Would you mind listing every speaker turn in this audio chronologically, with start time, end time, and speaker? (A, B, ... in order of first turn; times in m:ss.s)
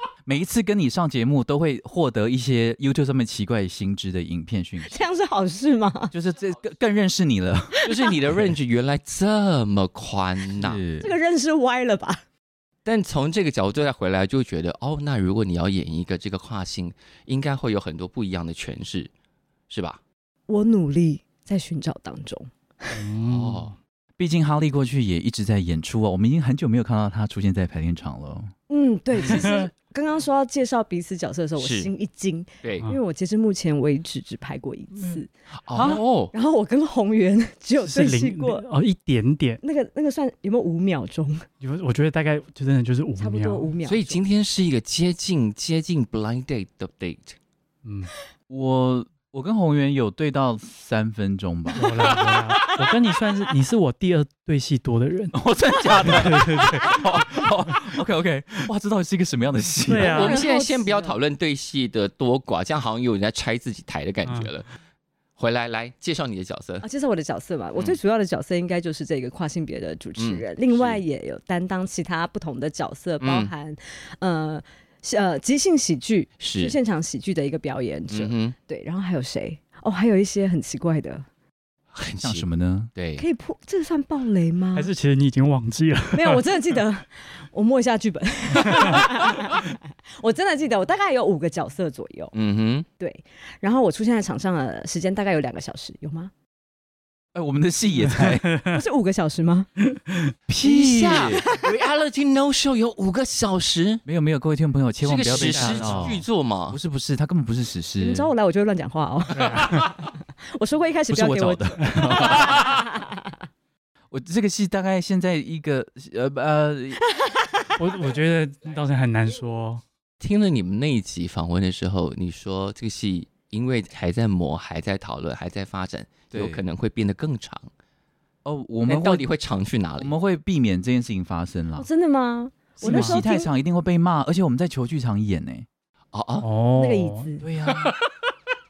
0:00.3-0:05.0 A
0:04.8-0:06.1 B
0:06.1-0:07.9 A
0:07.8-0:10.8 C
0:10.6-0:11.1 A
0:11.0-0:12.2 B
0:12.8-0:19.1 C
0:19.7-0:20.0 C
0:20.5-0:23.0 B
0:22.9-0:23.7 D
0:23.2-0:23.8 C
0:24.2-0:28.5 A
0:28.7-0:38.6 B
0:29.3-0:29.6 D
0:31.6-0:31.9 C
0:35.7-0:36.3 C
0:35.8-0:36.0 A
0:37.8-0:39.6 D
0:39.6-0:41.5 B
0:41.6-0:43.7 D
0:43.2-0:44.2 B
0:43.8-0:47.4 C
0:47.8-0:48.1 D
0:48.5-0:52.1 A
0:51.8-0:55.4 D
0:55.3-1:00.2 A
0:55.9-0:57.4 D
0:59.9-1:00.4 D
1:00.0-1:04.7 C
1:00.1-1:01.2 B
1:04.3-1:04.5 D
1:05.4-1:06.8 C
1:06.8-1:21.3 B
1:10.2-1:11.0 C
1:13.2-1:13.5 C
1:16.4-1:16.8 C
1:18.1-1:18.6 C
1:21.9-1:23.2 C
1:22.2-1:22.9 A
1:23.2-1:24.9 B
1:24.8-1:26.4 D
1:26.1-1:32.3 B
1:28.6-1:29.0 D
1:32.3-1:32.9 C
1:33.0-1:36.3 B
1:37.4-1:38.5 A
1:38.2-1:38.8 D
1:38.7-1:39.7 B
1:39.9-1:40.3 D
1:40.5-1:41.4 A
1:40.6-1:44.0 C
1:44.1-1:48.3 A
1:45.0-1:46.8 C
1:45.3-1:46.1 D
1:48.0-1:53.0 B
1:51.1-1:52.8 A
1:54.1-1:57.0 A
1:57.8-1:59.8 D
2:00.2-2:07.7 C
2:06.3-2:06.6 A
2:08.4-2:09.2 A
2:08.9-2:10.1 C
2:10.0-2:11.9 A
2:11.8-2:13.5 B
2:12.8-2:15.7 A
2:12.9-2:13.1 D
2:16.1-2:16.5 C
2:16.4-2:17.3 D
2:16.7-2:17.4 B
2:17.4-2:18.0 A